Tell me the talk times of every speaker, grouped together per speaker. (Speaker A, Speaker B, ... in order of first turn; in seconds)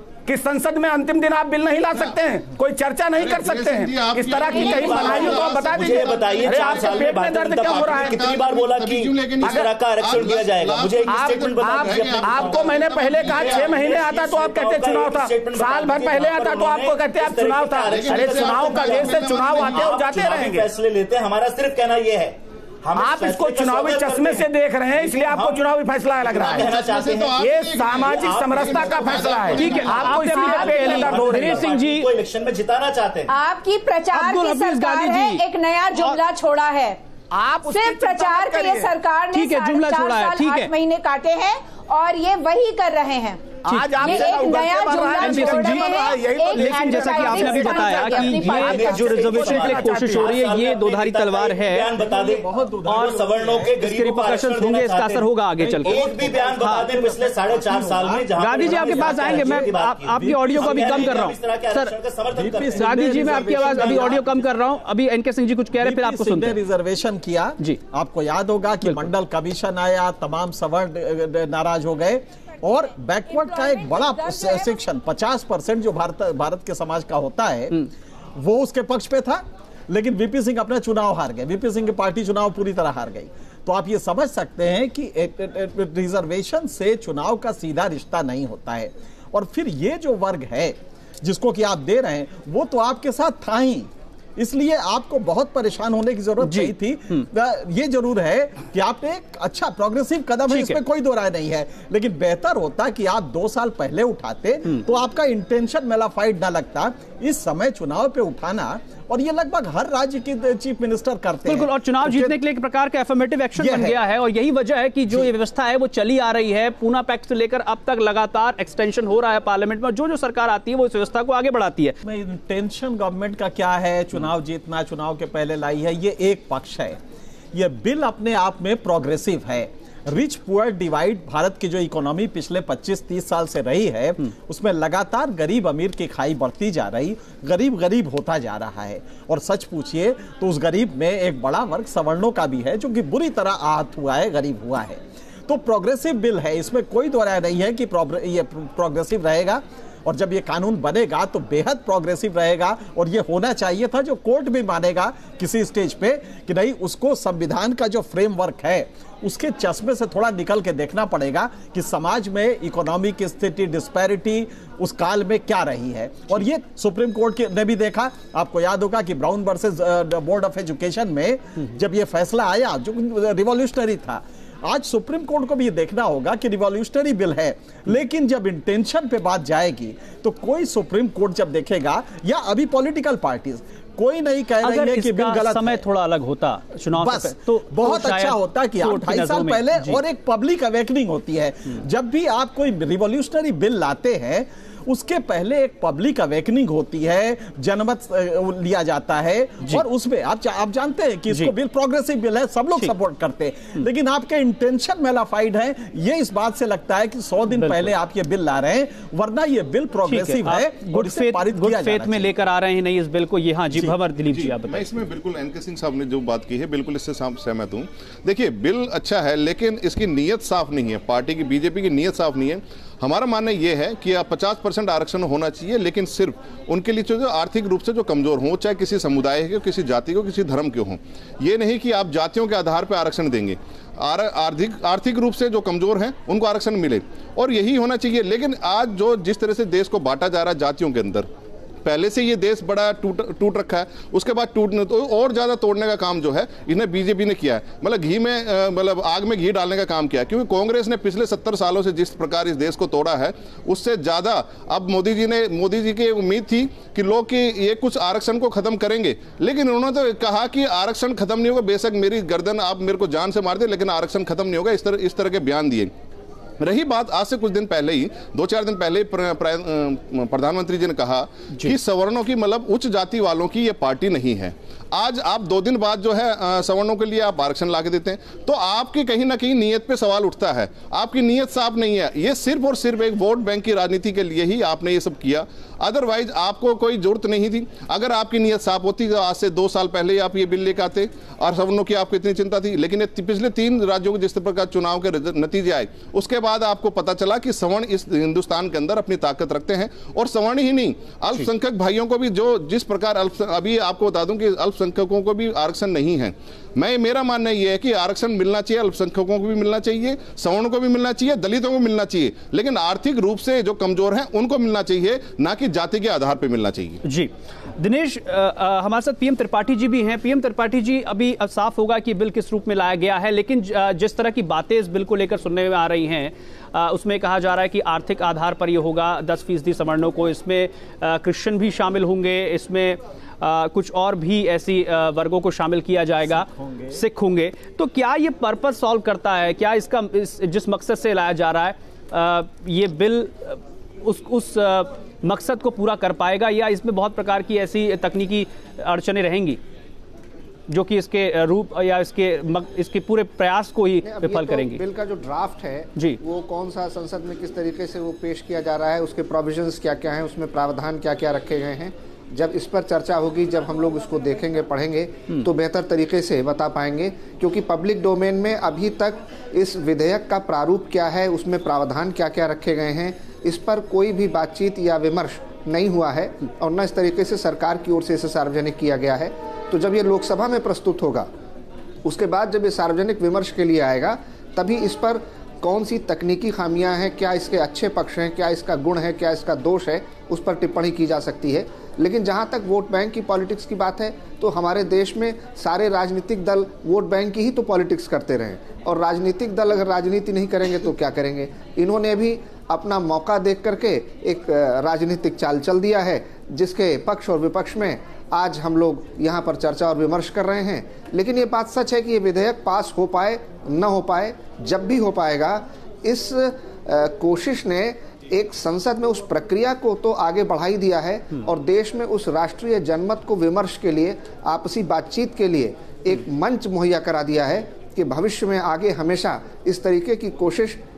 Speaker A: 0.2-8.3, 9.4-9.7, 11.1-20.7, 22.9-26.8, 27.4-31.7, 37.3-38.9, 43.6-50.4
Speaker B: 3.1-13.9, 17.9-20.0, 26.5-30.2, 214.3-241.3, 241.8-265.9, 266.6-317.0
Speaker C: 4.5-5.6, 30.2-31.0, 33.3-37.0, 37.7-49.1, 72.9-74.8
Speaker D: 4.7-25.7, 26.2-33.3, 44.1-44.3, 48.5-55.3, 55.8-64.4
Speaker E: 29.5-32.1, 34.1-36.2, 39.3-40.7, 43.7-44.0, 45.2-51.9, 52.9-53.2, 53.7-56.9, 58.4-61.9, 62.7-66.6, 68.8-69.1, 96.4-97.2, 100.5-100.8, 111.5-122.0, 184.6-190.0, 207.5-207.9, 210.1-215.0, 317.0-349.6, 350.7-354.8
Speaker F: 52.0-53.8, 55.6-61.3, 62.3-64.5, 65.7-112.4, 113.5-114.0, 122.0-127.0, 127.5-185.8, 186.9-212.4, 336.2-337.0
Speaker G: 354.0-381.3, 382.0-430.8